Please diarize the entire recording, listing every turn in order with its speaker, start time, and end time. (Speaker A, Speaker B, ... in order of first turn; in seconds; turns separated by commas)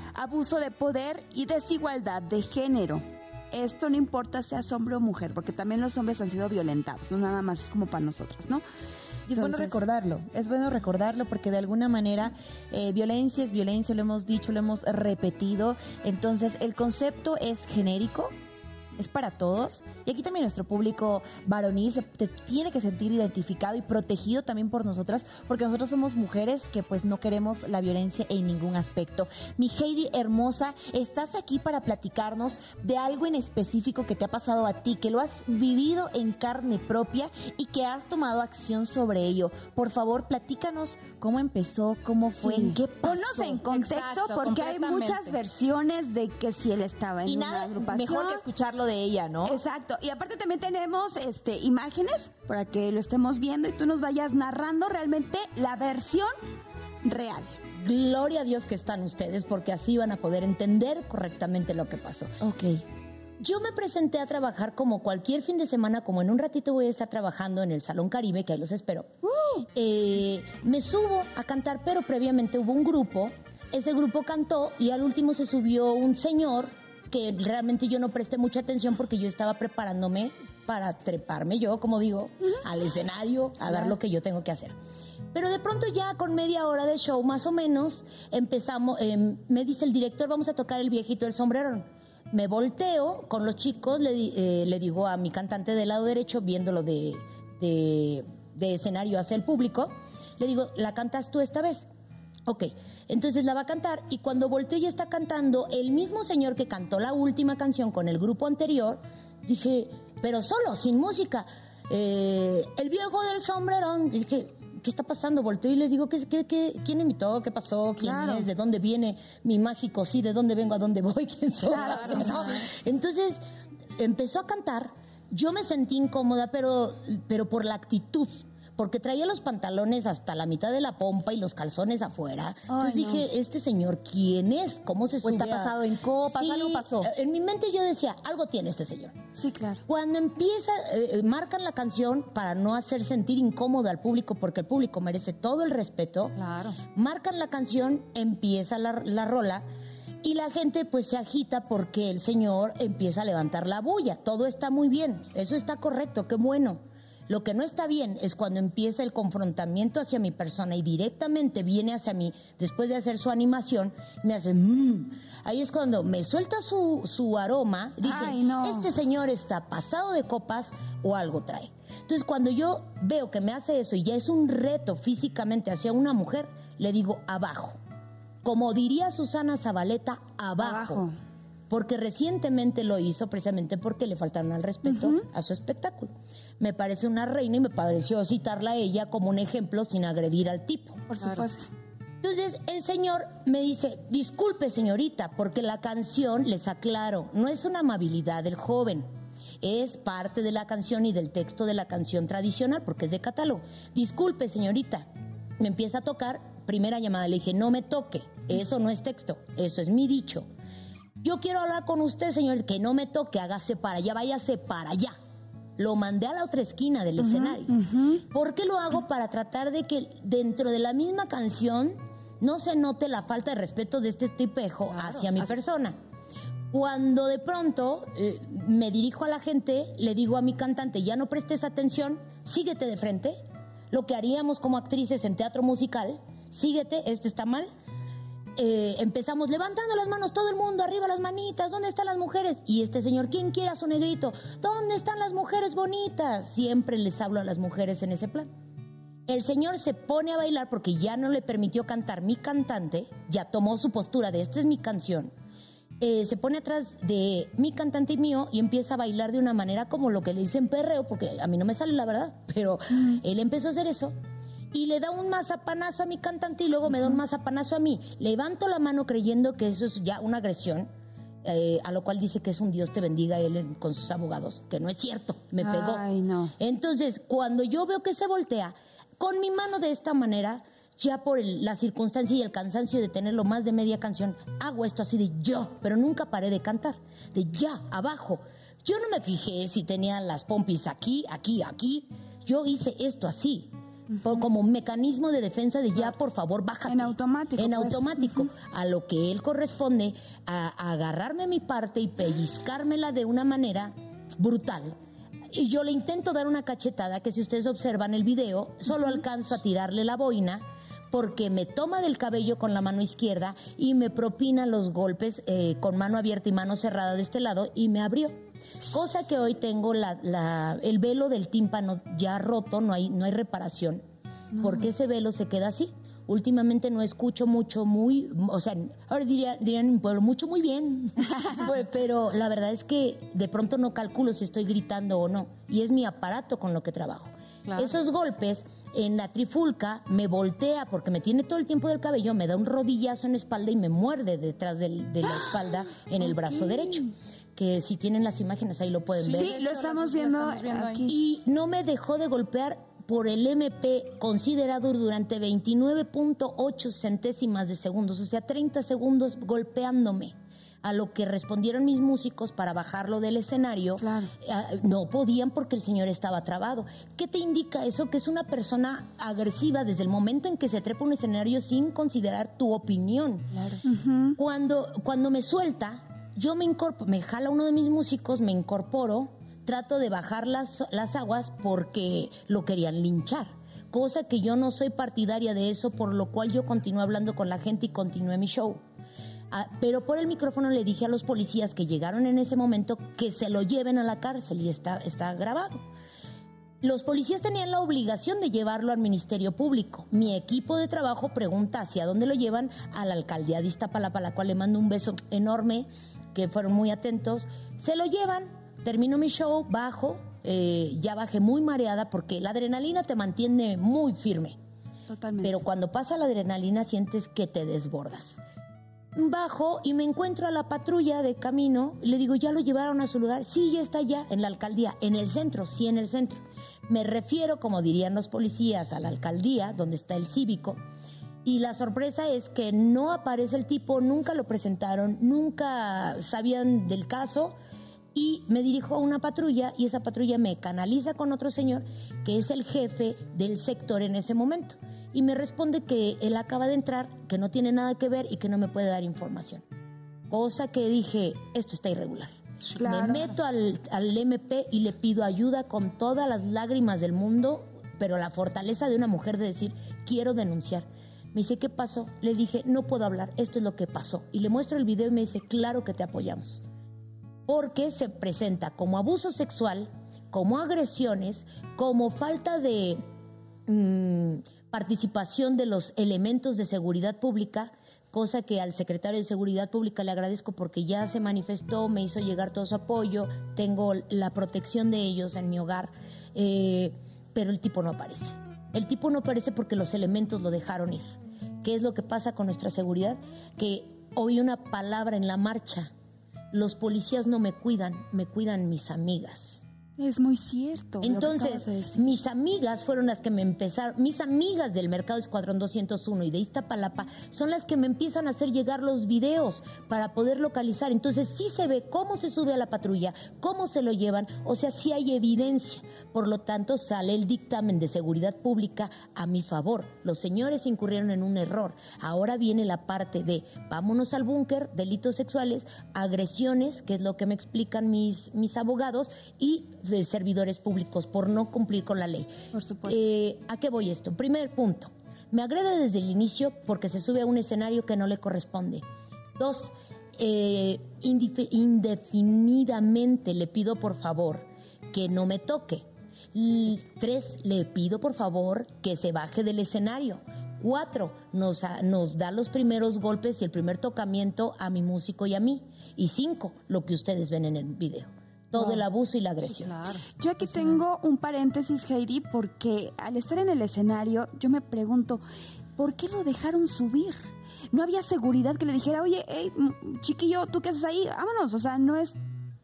Speaker A: 0.1-8.6, Speaker A: 9.3-9.8, Speaker B: 9.3-18.3, Speaker B: 19.0-43.6, Speaker A: 42.4-48.4, Speaker C: 43.7-45.4, Speaker B: 47.2-49.6, Speaker A: 49.4-56.3, Speaker A: 57.0-57.5, Speaker D: 57.8-62.4, Speaker B: 62.4-62.8, Speaker D: 63.4-84.7, Speaker A: 69.3-69.6, Speaker D: 85.3-101.9, Speaker D: 102.5-123.4, Speaker A: 118.0-118.5, Speaker A: 121.7-122.7, Speaker D: 124.0-139.1, Speaker A: 132.7-133.3, Speaker B: 135.2-137.1, Speaker A: 139.3-139.8, Speaker D: 139.9-146.3, Speaker C: 146.4-146.8, Speaker D: 146.9-149.6, Speaker D: 150.2-177.8, Speaker A: 168.0-168.9, Speaker D: 178.4-181.0, Speaker A: 180.6-181.1, Speaker D: 181.7-191.2, Speaker A: 184.9-185.2, Speaker A: 191.1-191.7, Speaker D: 192.2-199.0, Speaker D: 199.6-205.1, Speaker D: 205.6-210.5, Speaker D: 211.2-215.1, Speaker D: 215.8-225.9, Speaker A: 217.2-218.2, Speaker C: 225.0-225.3, Speaker D: 226.7-233.4, Speaker D: 233.9-237.7, Speaker D: 238.6-248.5, Speaker D: 249.3-255.3, Speaker D: 256.0-264.1, Speaker D: 264.7-270.9, Speaker D: 271.4-276.0, Speaker A: 275.6-276.5, Speaker D: 276.6-304.9, Speaker A: 296.9-298.4, Speaker D: 305.5-318.4, Speaker D: 318.9-324.0, Speaker D: 324.6-349.6, Speaker C: 349.1-351.1, Speaker A: 349.3-351.1, Speaker D: 351.1-373.7, Speaker A: 364.0-364.3, Speaker A: 373.8-374.4, Speaker D: 374.4-388.8, Speaker D: 389.5-395.8, Speaker D: 396.8-414.6, Speaker A: 415.1-415.6, Speaker D: 415.4-418.4, Speaker D: 419.1-430.8, Speaker D: 431.4-437.5, Speaker D: 438.1-449.6, Speaker D: 450.3-466.6, Speaker A: 452.8-453.3, Speaker D: 467.5-473.1, Speaker D: 473.7-491.1, Speaker D: 491.6-495.9, Speaker D: 496.5-499.6, Speaker A: 500.0-502.0, Speaker D: 501.0-532.3, Speaker A: 532.5-533.0, Speaker D: 532.8-538.8, Speaker D: 539.4-559.7, Speaker C: 559.5-560.0, Speaker A: 560.2-565.2, Speaker A: 565.8-572.1